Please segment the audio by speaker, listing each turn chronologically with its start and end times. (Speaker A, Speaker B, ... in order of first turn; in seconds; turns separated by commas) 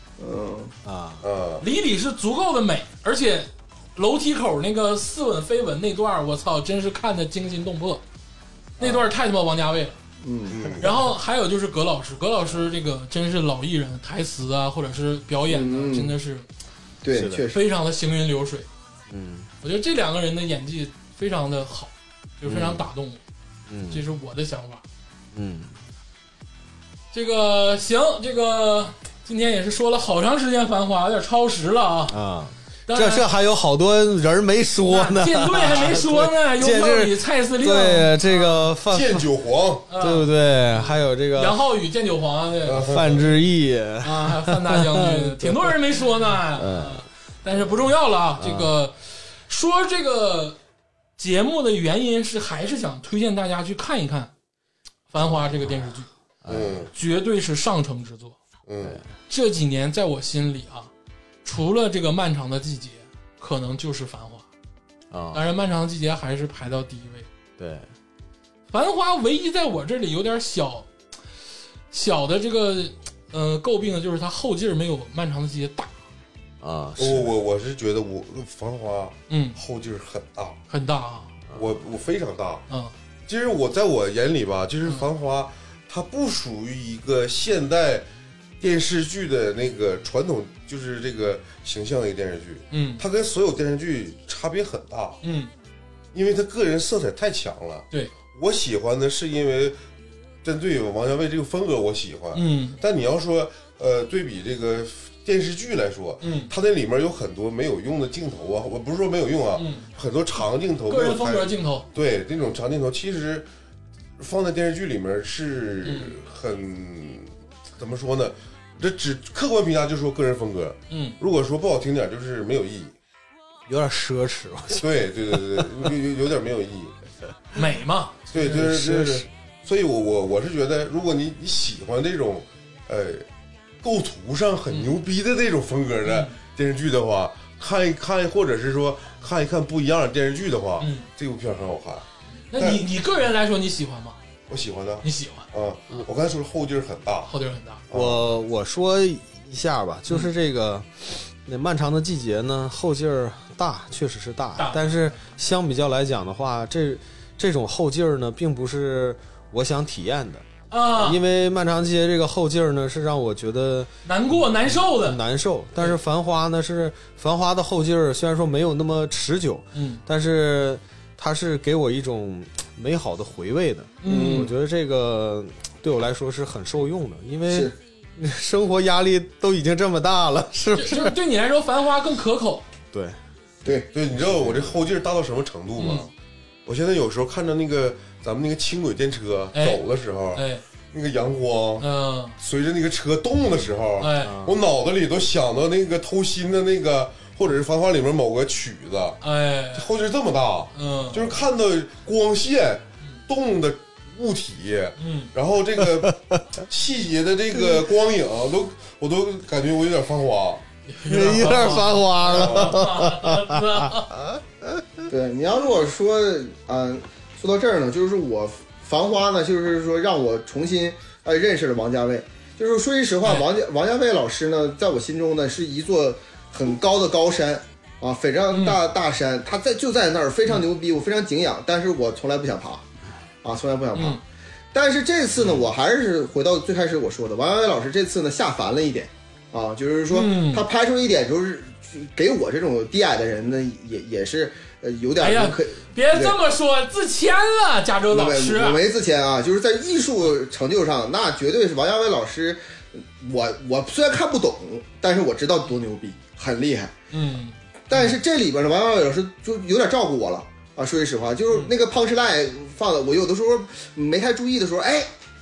Speaker A: 0.2-0.7, Speaker B: 0.8-1.2, Speaker C: 1.2-1.6, Speaker D: 1.6-8.0, Speaker D: 8.8-10.0, Speaker A: 10.2-10.8, Speaker C: 10.5-10.9, Speaker D: 10.8-16.5, Speaker A: 15.5-16.2, Speaker A: 17.0-17.6, Speaker B: 17.1-17.5, Speaker D: 17.5-18.7, Speaker B: 19.1-19.5, Speaker D: 19.6-23.2, Speaker B: 22.5-22.9, Speaker B: 23.7-24.0, Speaker D: 23.9-24.8, Speaker B: 25.3-25.8, Speaker D: 27.1-32.2, Speaker B: 32.1-39.3, Speaker D: 32.9-33.3, Speaker D: 34.8-38.7, Speaker C: 38.9-39.9, Speaker D: 39.9-43.4, Speaker B: 40.0-41.6, Speaker C: 42.6-43.3, Speaker B: 42.7-45.8, Speaker D: 44.0-49.0, Speaker B: 46.5-47.1, Speaker B: 48.4-48.7, Speaker D: 49.5-50.6, Speaker D: 51.2-54.3, Speaker D: 55.1-56.1, Speaker B: 55.2-55.5, Speaker B: 56.4-56.9, Speaker C: 56.5-56.9, Speaker D: 56.9-58.4, Speaker C: 58.7-59.0, Speaker B: 58.8-59.1, Speaker D: 59.3-60.9, Speaker D: 61.5-64.5, Speaker B: 65.1-65.5, Speaker D: 65.3-67.3, Speaker B: 67.6-67.9, Speaker D: 68.7-70.9, Speaker D: 71.9-75.9, Speaker B: 76.6-77.3, Speaker C: 77.0-80.6, Speaker D: 79.3-79.6, Speaker D: 80.7-81.3, Speaker C: 81.5-82.7, Speaker C: 83.3-88.1, Speaker C: 88.6-95.2, Speaker D: 92.7-93.0, Speaker D: 95.2-95.5, Speaker C: 96.1-99.8, Speaker C: 100.4-113.5, Speaker D: 102.3-102.8, Speaker D: 106.2-106.5, Speaker D: 109.6-109.9, Speaker D: 110.9-111.9, Speaker C: 114.2-122.9, Speaker D: 115.8-116.2, Speaker D: 120.9-121.2, Speaker B: 123.7-125.9, Speaker C: 124.8-126.9, Speaker D: 127.5-128.5, Speaker C: 128.3-133.2, Speaker B: 128.4-129.3, Speaker C: 133.8-142.9, Speaker D: 136.1-136.4, Speaker D: 140.8-141.1, Speaker D: 142.5-144.2, Speaker C: 144.5-147.3, Speaker D: 145.0-145.5, Speaker D: 147.3-147.8, Speaker C: 147.9-148.3, Speaker B: 147.9-163.9, Speaker D: 154.6-155.1, Speaker D: 160.7-161.2, Speaker D: 164.1-165.2, Speaker B: 164.5-181.2, Speaker D: 169.8-170.0, Speaker D: 174.0-174.5, Speaker A: 174.1-174.5, Speaker A: 177.5-177.8, Speaker D: 180.8-182.7, Speaker B: 182.9-183.2, Speaker C: 183.9-186.1, Speaker B: 184.2-184.8, Speaker D: 185.8-186.1, Speaker C: 186.7-191.9, Speaker D: 189.6-189.8, Speaker D: 190.3-190.6, Speaker D: 191.8-192.4, Speaker C: 192.4-199.2, Speaker D: 194.0-194.4, Speaker B: 194.2-194.6, Speaker D: 199.2-199.9, Speaker C: 199.8-210.6, Speaker D: 200.8-201.3, Speaker D: 205.0-205.3, Speaker B: 205.8-206.6, Speaker D: 210.9-214.1, Speaker B: 211.1-215.0, Speaker C: 212.3-212.9, Speaker A: 215.1-232.9, Speaker D: 223.2-223.5, Speaker D: 228.5-228.8, Speaker A: 233.4-234.2, Speaker D: 233.9-234.2, Speaker A: 234.7-246.4, Speaker D: 240.1-240.7, Speaker D: 245.2-248.8, Speaker A: 248.1-256.9, Speaker D: 257.1-258.2, Speaker A: 257.9-265.1